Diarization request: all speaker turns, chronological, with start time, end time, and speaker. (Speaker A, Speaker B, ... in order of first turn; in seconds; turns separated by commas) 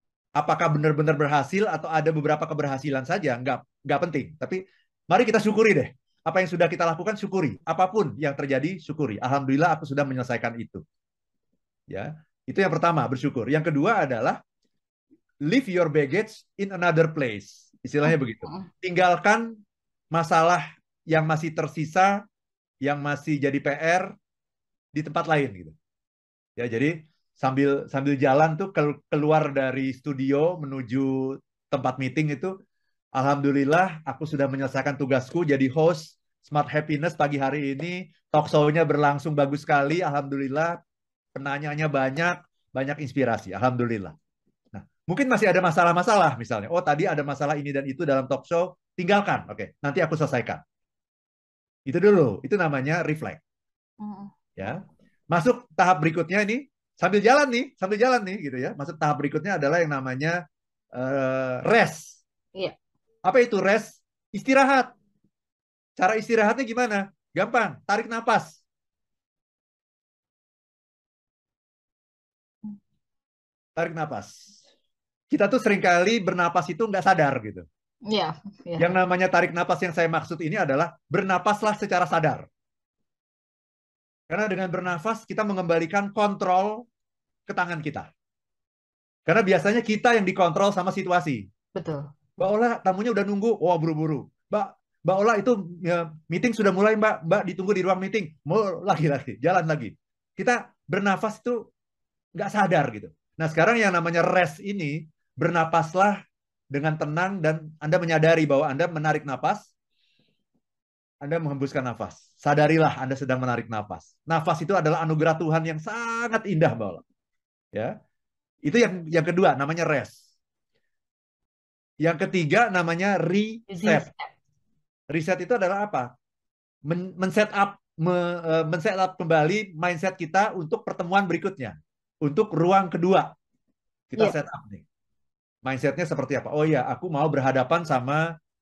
Speaker A: 0.4-10.8, Speaker A: 11.9-14.4, Speaker A: 15.5-19.5, Speaker A: 20.1-22.2, Speaker A: 22.8-24.1, Speaker A: 24.9-25.8, Speaker A: 26.6-32.5, Speaker A: 33.2-40.8, Speaker A: 41.4-44.1, Speaker A: 44.7-50.6, Speaker A: 51.9-53.4, Speaker B: 54.0-54.3, Speaker A: 54.6-60.4, Speaker A: 60.9-62.2, Speaker A: 63.2-64.9, Speaker A: 66.0-68.6, Speaker A: 73.8-74.3, Speaker A: 75.3-77.7, Speaker B: 78.1-78.9, Speaker A: 78.8-82.5, Speaker A: 84.3-86.8, Speaker A: 87.5-88.1, Speaker A: 89.3-91.5, Speaker B: 91.8-92.0, Speaker A: 92.4-101.6, Speaker A: 102.4-106.2, Speaker A: 106.7-109.7, Speaker A: 111.2-117.0, Speaker A: 118.7-120.2, Speaker A: 122.0-124.1, Speaker B: 123.7-124.3, Speaker A: 125.1-126.1, Speaker A: 126.9-133.3, Speaker A: 134.1-134.8, Speaker A: 135.7-138.2